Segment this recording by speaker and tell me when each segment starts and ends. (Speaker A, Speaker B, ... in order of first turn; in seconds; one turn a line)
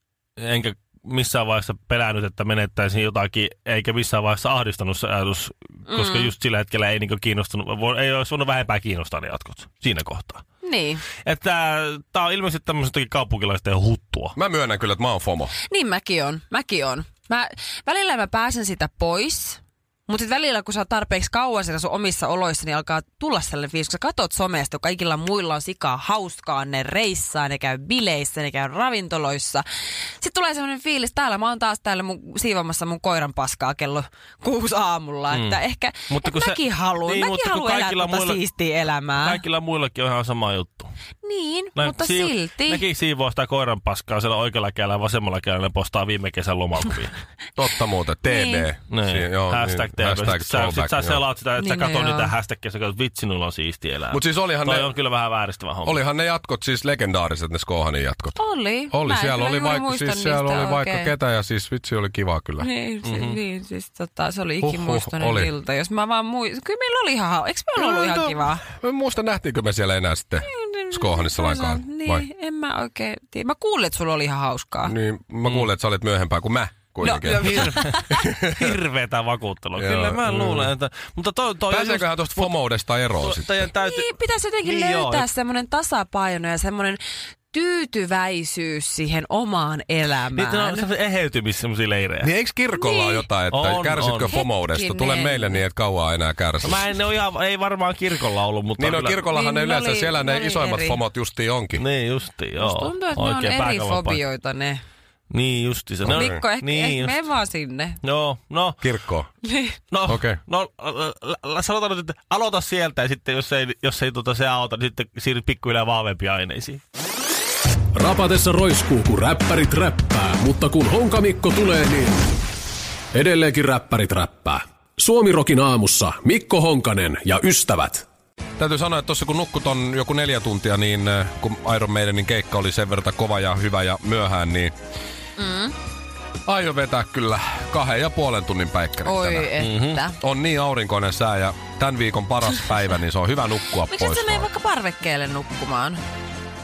Speaker A: 0.4-10.4
Speaker B: 5.9-6.3
Speaker B: 10.6-11.1
Speaker A: 11.2-14.3
Speaker C: 14.3-15.6
Speaker B: 15.7-29.6
Speaker B: 30.2-39.4
Speaker A: 35.3-38.4
Speaker A: 39.2-40.9
Speaker B: 41.2-42.8
Speaker A: 41.8-47.1
Speaker C: 47.6-51.2
Speaker B: 48.2-48.7
Speaker A: 48.9-56.0
Speaker B: 51.6-52.3
Speaker C: 54.1-54.9
Speaker C: 55.9-58.4
Speaker B: 58.4-61.1
Speaker C: 58.9-62.7
Speaker B: 62.6-68.7
Speaker A: 63.0-63.4
Speaker C: 64.6-65.5
Speaker C: 67.8-72.3
Speaker B: 70.4-74.9
Speaker C: 74.8-78.7
Speaker B: 77.0-78.2
Speaker A: 77.2-84.1
Speaker C: 79.8-80.7
Speaker C: 81.7-83.7
Speaker B: 83.8-87.0
Speaker A: 84.6-85.3
Speaker B: 87.5-90.9
Speaker A: 90.3-92.3
Speaker C: 92.2-96.9
Speaker B: 92.7-93.3
Speaker A: 93.5-94.3
Speaker B: 94.3-95.6
Speaker A: 96.6-99.3
Speaker C: 98.8-101.8
Speaker B: 99.3-101.0
Speaker A: 101.8-104.2
Speaker B: 102.6-104.8
Speaker A: 105.3-107.2
Speaker C: 106.0-106.4
Speaker B: 106.1-108.0
Speaker A: 108.0-108.8
Speaker C: 108.8-109.3
Speaker B: 109.4-109.8
Speaker A: 109.9-116.8
Speaker C: 110.1-110.4
Speaker D: 118.0-122.1
Speaker D: 123.2-128.0
Speaker C: 128.6-134.7
Speaker B: 135.4-135.7
Speaker C: 136.5-144.5
Speaker B: 139.0-140.2
Speaker A: 139.6-140.0
Speaker B: 143.9-146.0